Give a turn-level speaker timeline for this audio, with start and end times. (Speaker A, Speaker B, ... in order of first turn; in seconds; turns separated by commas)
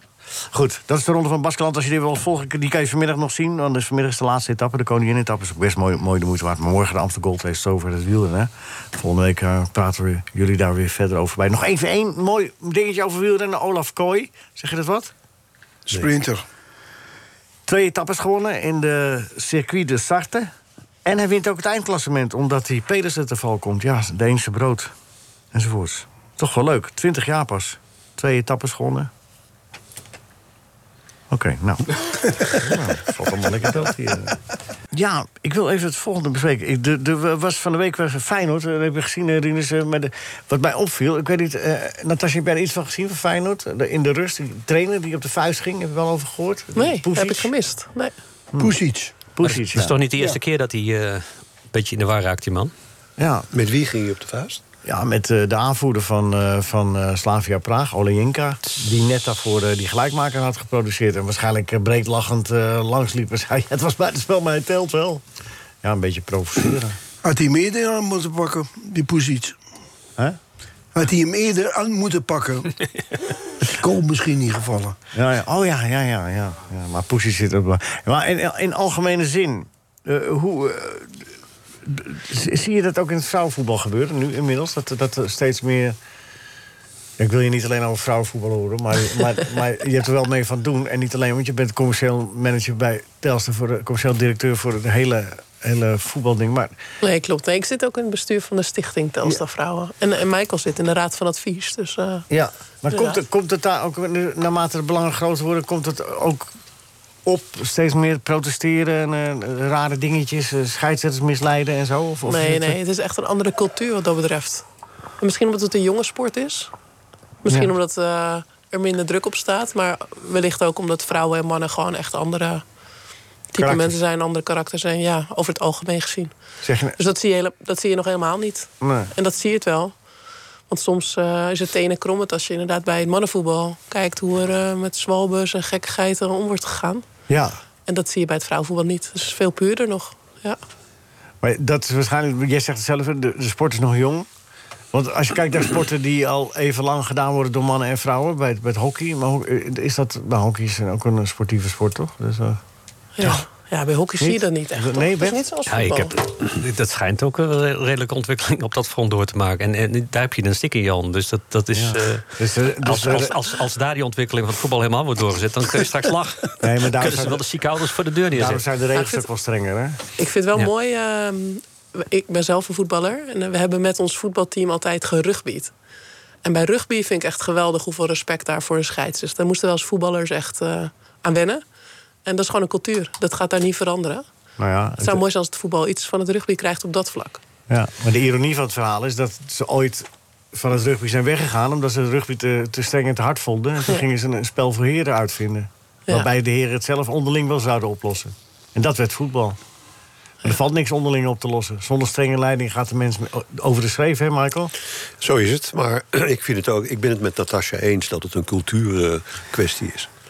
Speaker A: 0.5-15.1, Speaker B: 15.9-16.4, Speaker A: 17.7-20.5, Speaker A: 21.1-24.9, Speaker A: 25.5-29.1, Speaker A: 31.3-34.4, Speaker A: 34.9-47.5, Speaker C: 46.8-48.1, Speaker B: 48.6-49.1, Speaker A: 49.3-50.0, Speaker D: 49.4-52.7, Speaker A: 53.2-53.5, Speaker E: 53.5-54.6, Speaker A: 54.9-65.2, Speaker A: 65.8-67.0, Speaker B: 67.2-69.6, Speaker B: 71.0-72.7, Speaker B: 73.7-75.0, Speaker A: 75.2-81.2, Speaker A: 81.8-86.0, Speaker A: 87.2-96.8, Speaker C: 97.0-102.3, Speaker A: 102.3-106.5, Speaker C: 102.9-103.2, Speaker A: 107.2-112.8, Speaker C: 112.3-114.7, Speaker C: 115.2-116.7, Speaker C: 117.4-122.6, Speaker C: 123.5-126.3, Speaker A: 123.6-124.0, Speaker A: 126.6-127.0, Speaker C: 127.0-129.9, Speaker A: 128.8-129.1, Speaker C: 130.7-137.1, Speaker A: 137.3-137.6, Speaker C: 137.9-140.6, Speaker A: 141.4-144.3, Speaker A: 144.9-152.6, Speaker C: 153.2-156.1, Speaker A: 154.2-155.4, Speaker D: 155.7-162.3, Speaker A: 161.8-163.4, Speaker D: 162.8-168.6, Speaker A: 166.6-167.4, Speaker A: 168.3-170.0, Speaker C: 170.2-175.7, Speaker C: 176.4-181.6, Speaker C: 182.3-184.2, Speaker A: 184.6-185.2, Speaker C: 185.0-187.4, Speaker A: 187.7-199.6, Speaker A: 200.4-204.7, Speaker E: 205.2-210.1